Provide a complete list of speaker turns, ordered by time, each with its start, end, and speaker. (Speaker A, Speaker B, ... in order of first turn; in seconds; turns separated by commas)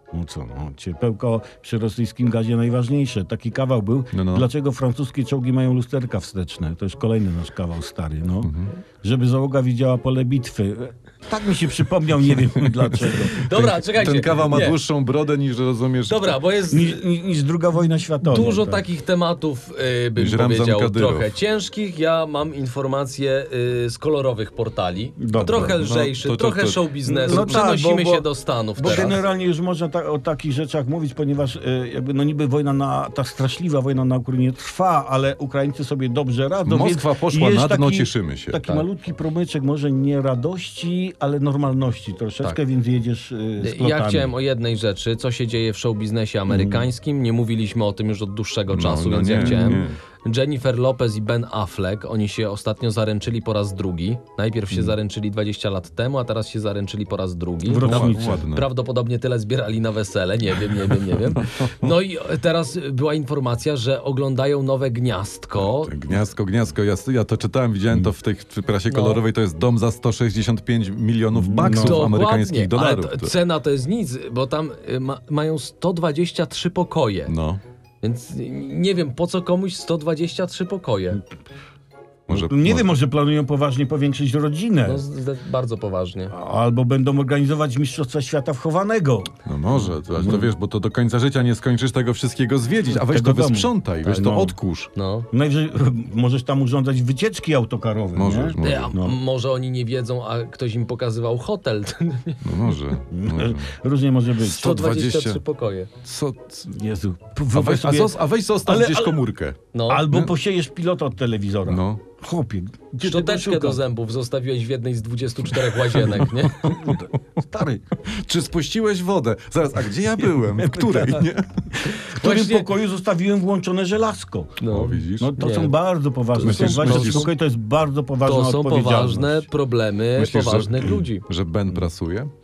Speaker A: 0.1-13.5, Speaker B: 4.1-4.5, Speaker B: 8.4-8.7, Speaker B: 12.5-16.3, Speaker C: 13.3-14.8, Speaker C: 16.1-17.0, Speaker A: 16.7-18.8, Speaker C: 18.2-29.2, Speaker B: 20.2-21.3, Speaker A: 25.2-25.8, Speaker B: 25.5-27.6, Speaker A: 27.1-44.3, Speaker B: 36.6-38.6, Speaker C: 43.6-66.0, Speaker A: 46.5-46.9, Speaker B: 48.7-50.0, Speaker A: 49.4-49.9, Speaker A: 57.6-58.5, Speaker B: 57.8-58.7, Speaker B: 61.4-61.9, Speaker B: 65.6-73.3, Speaker C: 68.9-69.2, Speaker A: 71.3-72.1, Speaker C: 71.6-77.3, Speaker B: 77.3-77.6, Speaker C: 78.0-81.2, Speaker B: 82.3-82.9, Speaker A: 82.3-85.0, Speaker C: 84.8-86.3, Speaker A: 86.3-89.3, Speaker B: 89.5-94.9, Speaker A: 90.2-90.5, Speaker A: 92.9-94.5, Speaker C: 94.1-95.3, Speaker A: 95.3-99.2, Speaker B: 98.2-98.9, Speaker C: 98.6-102.7, Speaker B: 102.4-103.7, Speaker A: 103.1-104.7, Speaker B: 104.4-105.4, Speaker C: 104.4-105.9, Speaker B: 106.0-106.8, Speaker A: 106.7-109.2, Speaker B: 107.5-109.6, Speaker C: 109.7-110.1, Speaker A: 109.9-113.8, Speaker B: 111.7-112.0, Speaker C: 113.0-116.8, Speaker A: 116.6-117.8, Speaker B: 116.7-117.0, Speaker B: 118.0-121.7, Speaker A: 120.5-124.6, Speaker C: 121.9-122.7, Speaker C: 124.6-125.7, Speaker B: 124.7-125.4, Speaker A: 125.2-129.5, Speaker C: 126.3-127.3, Speaker B: 126.4-127.3, Speaker C: 128.2-131.2, Speaker B: 130.2-132.3